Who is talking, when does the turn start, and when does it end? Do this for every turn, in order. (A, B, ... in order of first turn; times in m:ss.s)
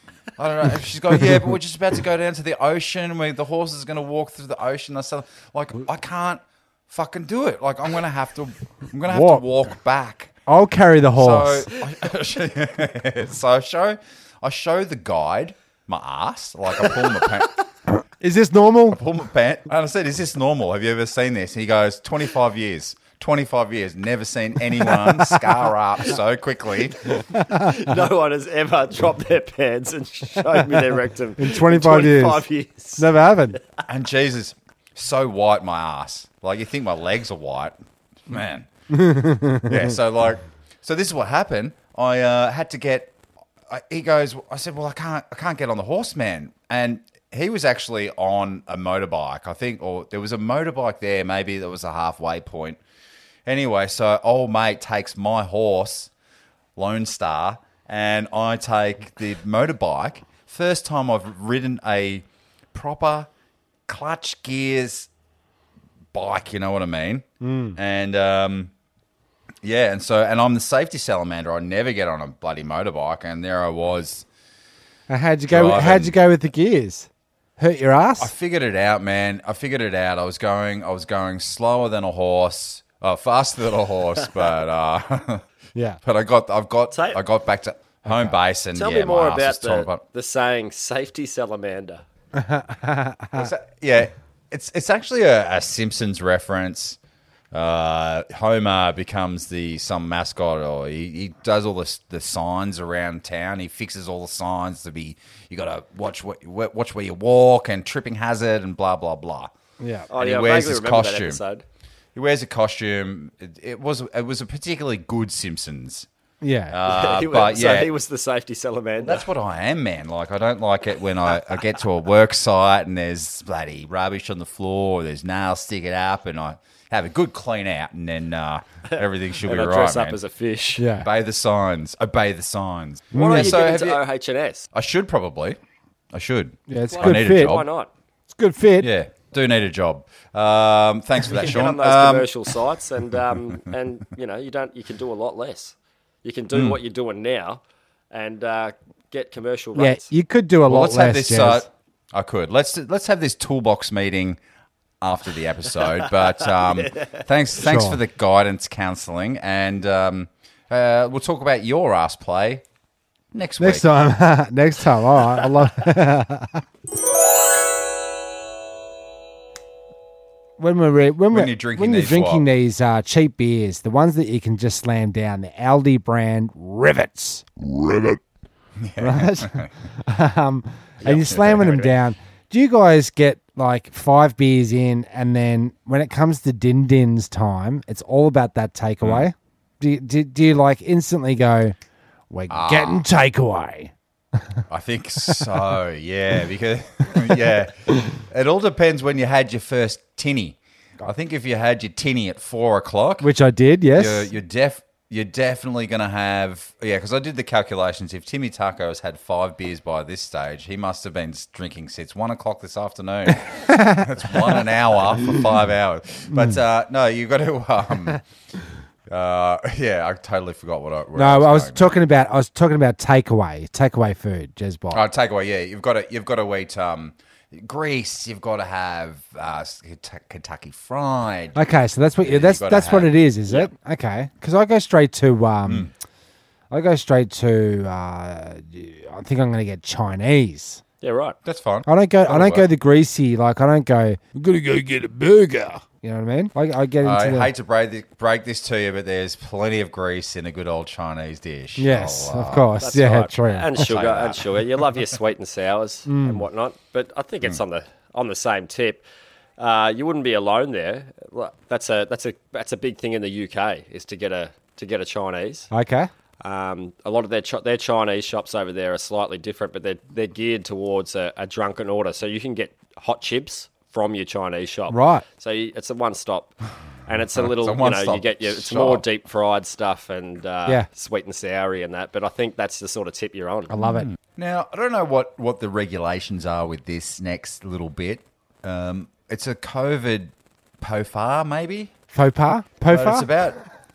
0:00.4-0:10.3 A
0:09.1-0:09.4 B
0:10.5-0:11.7 B
0:11.2-0:17.6 A
0:18.2-0:19.0 B
0:18.9-0:27.2 A
0:27.4-0:27.7 B
0:27.5-0:33.6 C
0:31.4-0:32.4 B
0:33.0-0:33.6 B
0:33.9-0:37.8 A
0:38.3-0:38.7 A
0:38.9-0:39.9 B
0:39.6-0:43.2 A
0:43.7-0:52.8 A
0:53.5-0:56.1 A
0:56.8-1:03.3 A
1:03.9-1:05.1 A
1:06.1-1:08.7 A
1:07.4-1:07.8 B
1:09.6-1:14.3 A
1:15.1-1:18.3 B
1:15.5-1:16.2 A
1:18.2-1:25.4 A
1:25.8-1:26.0 B
1:26.0-1:30.0 A
1:26.9-1:27.2 C
1:28.1-1:28.3 B
1:28.7-1:32.0 C
1:32.4-1:33.5 B
1:33.4-1:37.0 A
1:37.5-1:49.5 A
1:49.8-1:50.1 B
1:50.1-1:51.6 C
1:50.1-1:51.4 A
1:52.2-1:56.1 A
1:56.4-1:56.8 B
1:56.7-1:57.9 A
1:56.9-1:59.3 C
1:59.0-2:10.2 A
2:08.9-2:10.9 C
2:10.8-2:11.1 B
2:11.0-2:14.0 A
2:13.1-2:13.5 B
2:13.1-2:14.7 C
2:14.7-2:15.6 A
2:16.1-2:17.7 A
2:16.7-2:17.6 B
2:16.9-2:17.9 C
2:18.3-2:18.9 B
2:18.8-2:22.4 A
2:21.3-2:30.1 C
2:26.5-2:26.8 A
2:29.8-2:31.7 B
2:30.6-2:34.4 A
2:35.0-2:42.6 A
2:35.9-2:37.2 C
2:37.6-2:38.0 B
2:43.3-2:43.9 A
2:43.6-2:46.6 B
2:50.6-2:58.2 B
2:51.3-2:52.4 A
2:58.8-2:59.7 A
2:59.0-3:11.8 B
3:01.1-3:01.9 A
3:09.0-3:09.3 A
3:12.3-3:13.9 B
3:12.5-3:13.0 A
3:14.7-3:23.3 A
3:15.3-3:15.6 B
3:23.2-3:24.3 B
3:24.0-3:38.2 A
3:33.4-3:34.6 B
3:36.3-3:36.6 B
3:39.1-3:42.0 A
3:41.2-3:45.0 B
3:44.9-3:51.6 A
3:51.6-3:55.9 B
3:52.2-3:53.1 A
3:56.7-4:00.8 B
4:01.0-4:01.4 C
4:01.4-4:02.7 A
4:01.9-4:07.5 B
4:07.0-4:12.7 A
4:11.8-4:13.8 B
4:12.8-4:19.0 C
4:13.8-4:14.4 A
4:16.1-4:16.4 B
4:19.6-4:25.7 C
4:25.7-4:26.1 B
4:26.4-4:36.6 C
4:34.9-4:35.2 B
4:37.1-4:43.7 C
4:37.4-4:39.0 A
4:43.7-4:44.1 B
4:43.8-4:51.9 A
4:52.1-4:53.3 B
4:52.9-4:53.6 A